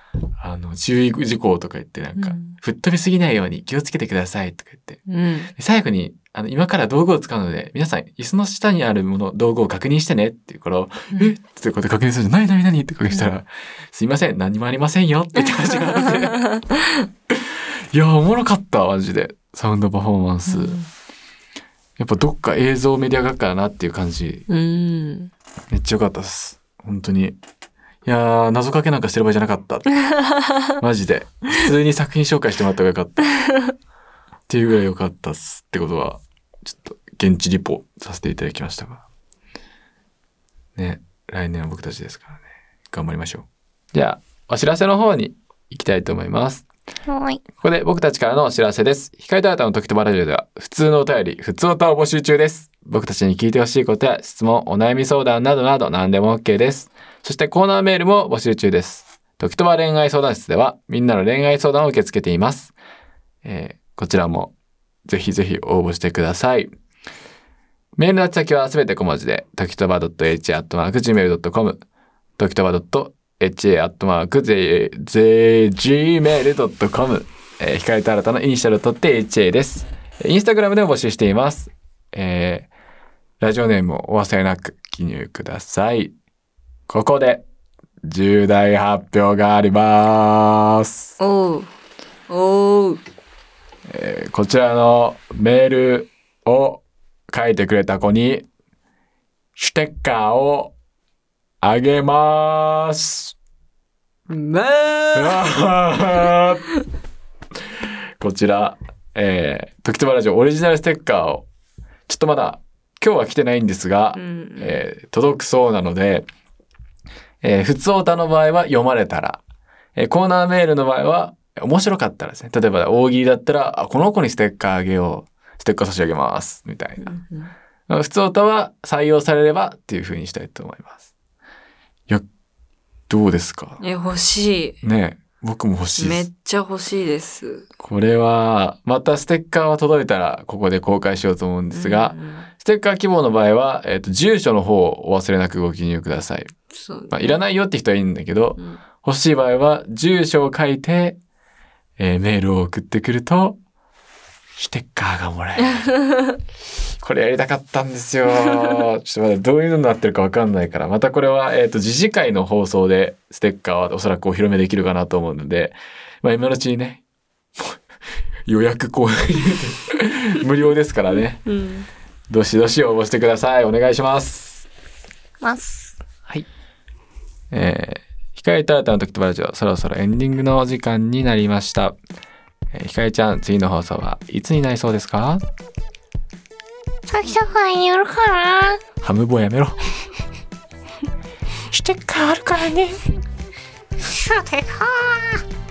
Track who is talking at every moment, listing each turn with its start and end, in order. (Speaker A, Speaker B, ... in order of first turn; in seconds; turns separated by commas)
Speaker A: 0.4-5.0, Speaker B: 2.2-2.5, Speaker B: 5.1-5.5, Speaker A: 5.5-16.6, Speaker B: 16.2-16.9, Speaker A: 17.3-20.8, Speaker B: 20.4-20.9, Speaker A: 22.0-24.4, Speaker B: 24.5-25.3, Speaker A: 25.7-27.4, Speaker A: 28.0-29.9, Speaker B: 30.2-30.6, Speaker A: 30.7-33.3, Speaker B: 33.4-33.7, Speaker A: 34.5-39.0, Speaker A: 40.8-46.6, Speaker C: 47.1-47.4, Speaker A: 47.5-62.8, Speaker A: 63.4-64.5, Speaker A: 65.0-66.7, Speaker A: 68.0-71.8, Speaker A: 72.4-82.7, Speaker A: 83.4-86.1, Speaker A: 86.9-87.4, Speaker A: 88.0-91.1, Speaker B: 91.2-91.7, Speaker B: 92.3-93.0, Speaker A: 93.9-98.5, Speaker A: 99.6-100.7, Speaker A: 101.6-103.3, Speaker B: 104.3-105.4, Speaker A: 105.1-106.7, Speaker A: 107.8-111.5, Speaker A: 112.1-116.3, Speaker B: 114.1-114.8, Speaker A: 117.4-119.4, Speaker A: 120.0-127.1, Speaker B: 127.0-127.5, Speaker A: 127.9-131.0, Speaker A: 133.1-133.8, Speaker B: 133.8-134.8, Speaker A: 134.8-136.2, Speaker B: 136.0-137.7, Speaker A: 137.8-146.5, Speaker B: 141.7-142.5, Speaker B: 146.7-147.4, Speaker A: 147.1-151.2, Speaker A: 152.0-153.6, Speaker A: 154.6-155.9, Speaker B: 155.7-156.4, Speaker A: 157.0-167.0, Speaker A: 168.5-171.4, Speaker B: 171.4-171.9, Speaker A: 172.3-174.7, Speaker C: 175.4-175.9, Speaker A: 177.5-181.9, Speaker A: 182.7-185.4, Speaker C: 187.1-188.8, Speaker A: 189.0-189.8, Speaker A: 191.7-193.0, Speaker C: 194.0-195.4